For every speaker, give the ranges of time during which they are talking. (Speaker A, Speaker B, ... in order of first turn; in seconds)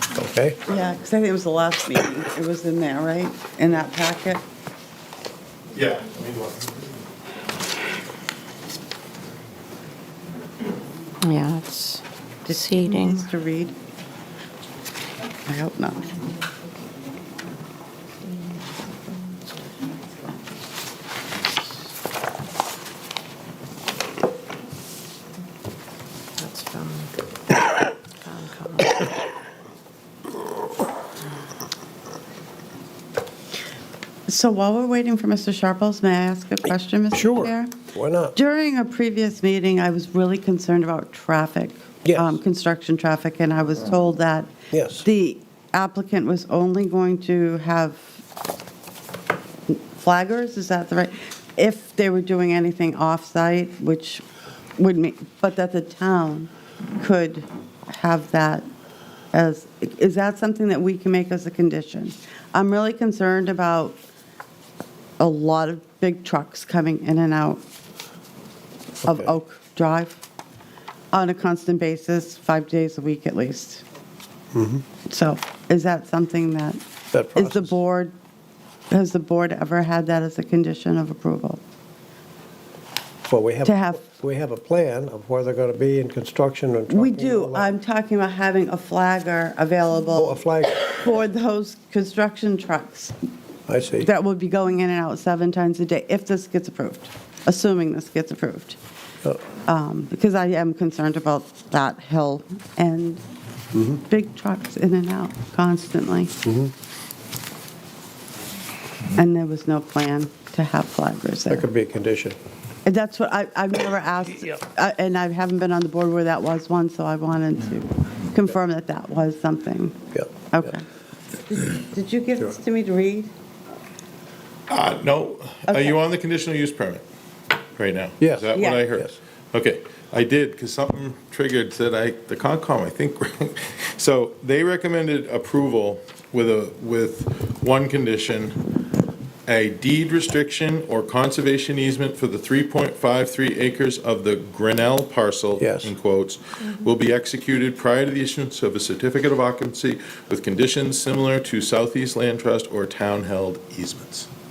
Speaker A: 0.1-0.6, 37.1-38.3, 42.0-42.3, 44.7-45.0, 69.0-69.3, 74.5-74.8, 77.1-77.8, 83.3-87.7, 90.2-90.9, 93.7-94.1, 103.7-104.0, 106.4-106.7, 111.5-112.4, 128.2-129.2, 145.6-145.9
Speaker B: 0.7-4.4, 12.5-13.7, 15.5-16.2, 34.3-37.7, 38.3-48.2, 49.7-54.2, 54.8-58.6, 59.3-64.0, 65.2-67.6, 69.0-70.2, 71.1-73.8, 75.1-76.8, 77.4-78.1, 78.9-81.6, 83.7-84.0, 86.9-93.1, 94.0-98.8, 99.6-103.2, 104.1-106.3, 109.1-111.7, 112.8-120.0, 120.5-120.8, 121.5-123.3, 125.7-126.0, 128.5-128.8
Speaker C: 5.7-6.8, 124.7-127.0, 127.7-138.6, 139.5-154.3
Speaker D: 11.2-13.3, 18.2-19.4, 26.4-29.2